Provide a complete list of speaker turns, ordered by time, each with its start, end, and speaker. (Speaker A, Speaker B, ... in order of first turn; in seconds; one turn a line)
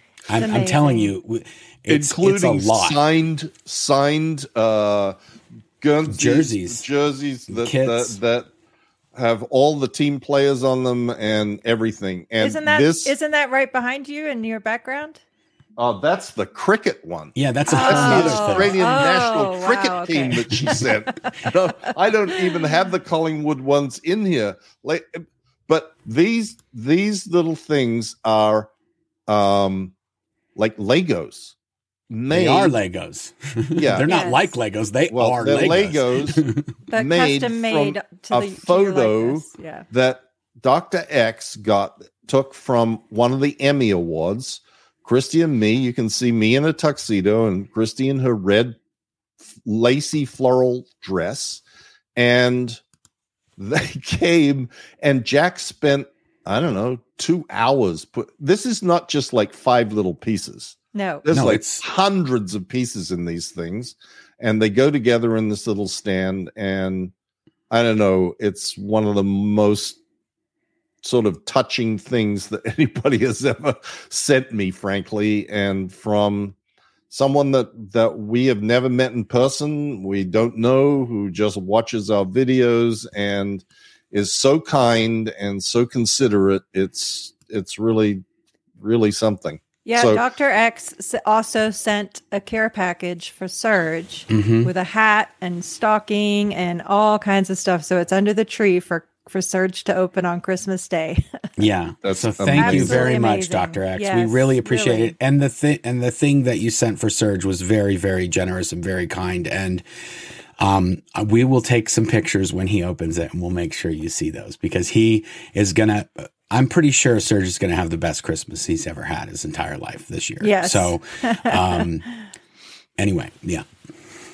Speaker A: 0.3-3.0
Speaker B: 0.3-1.1
Speaker C: 1.9-5.2
Speaker C: 5.8-8.5
Speaker A: 6.1-6.8
Speaker A: 7.5-8.2
Speaker C: 9.1-13.1
Speaker B: 12.4-15.2
Speaker C: 15.8-28.7
Speaker A: 17.4-18.8
Speaker B: 17.7-21.5
Speaker C: 29.3-29.9
Speaker C: 30.6-31.5
Speaker C: 32.1-32.7
Speaker A: 32.3-36.7
Speaker C: 33.8-34.1
Speaker B: 34.0-34.5
Speaker C: 35.1-36.4
Speaker B: 36.9-39.9
Speaker C: 36.9-48.8
Speaker C: 49.6-51.6
Speaker C: 52.1-52.8
Speaker C: 53.6-67.1
Speaker B: 60.9-61.2
Speaker A: 61.3-61.8
Speaker C: 67.7-70.0
Speaker C: 71.0-76.5
Speaker C: 77.1-88.2
Speaker C: 88.8-90.2
Speaker B: 89.8-101.2
Speaker A: 94.3-94.7
Speaker A: 101.6-109.8
Speaker C: 102.0-103.1
Speaker B: 102.6-105.1
Speaker A: 110.6-122.1
Speaker B: 120.4-121.8
Speaker A: 123.0-123.7